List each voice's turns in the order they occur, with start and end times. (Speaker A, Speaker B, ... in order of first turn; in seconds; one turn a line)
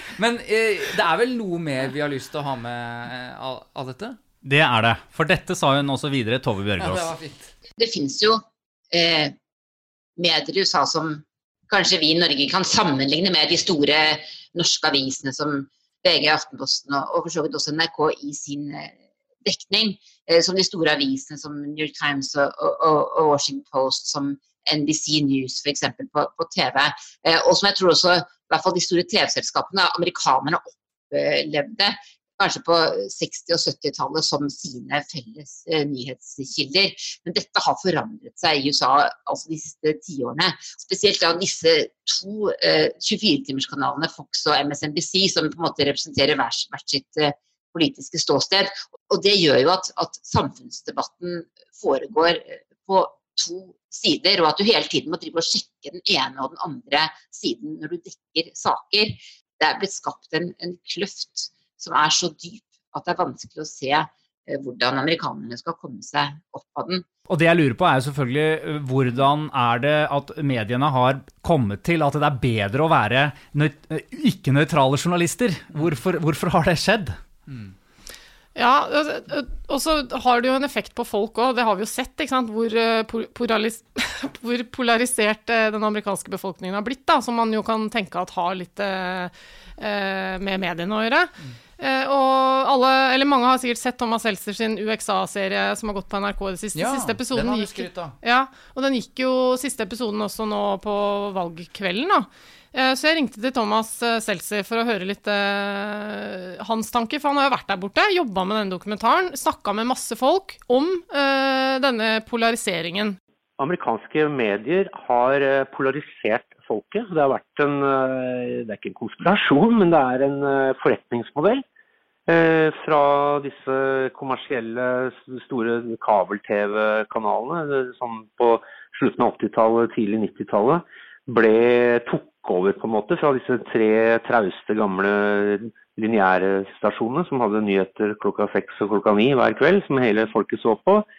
Speaker A: 0.2-4.2
Speaker B: 4.4-7.1
Speaker A: 6.8-7.5
Speaker C: 7.8-9.3
Speaker C: 10.2-67.0
Speaker B: 67.3-77.2
Speaker A: 77.5-77.7
Speaker D: 78.5-113.2
Speaker A: 96.7-98.2
Speaker E: 113.6-121.6
Speaker E: 122.3-141.1